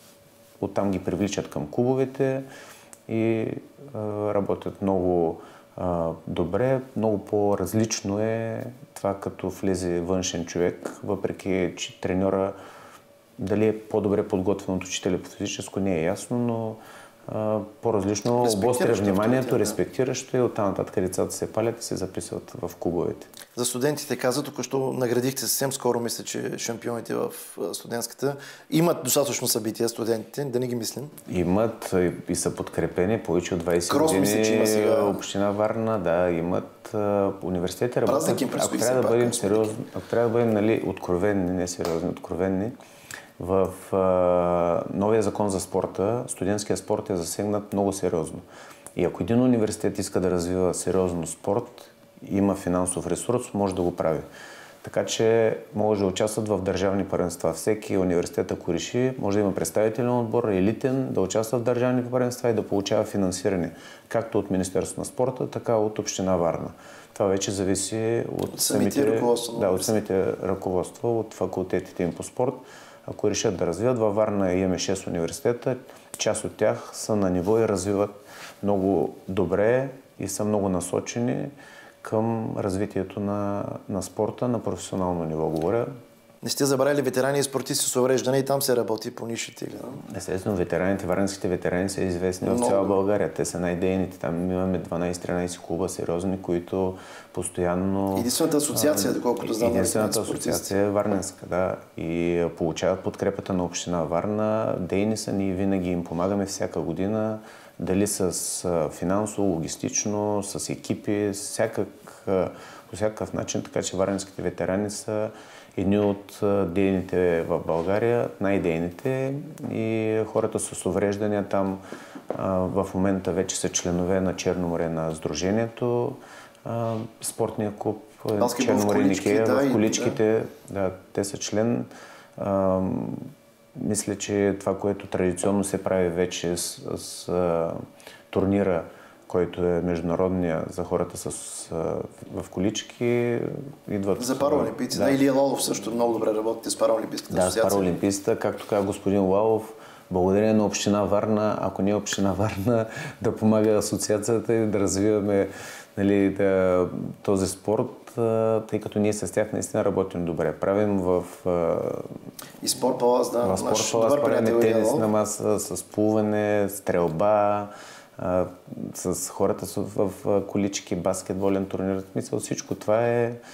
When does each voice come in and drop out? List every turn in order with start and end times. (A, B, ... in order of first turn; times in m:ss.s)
0:00.6-0:02.4 A
0:03.1-0:12.5 A
0:13.4-0:23.3 A
0:18.3-0:19.8 B
0:23.5-0:31.1 B
0:31.3-0:42.7 A
0:33.9-0:35.2 B
0:38.0-0:39.8 B
0:43.4-0:48.4 A
0:49.0-0:54.2 A
0:54.8-1:25.9 A
1:08.5-1:09.9 B
1:26.4-1:30.0 B
1:30.1-2:01.8 A
1:32.4-1:33.0 B
1:38.1-1:40.7 B
2:02.3-2:17.8 A
2:08.4-2:10.2 B
2:18.3-2:25.2 A
2:24.2-2:27.9 B
2:27.3-2:42.1 A
2:42.6-2:45.1 B
2:43.4-2:53.4 A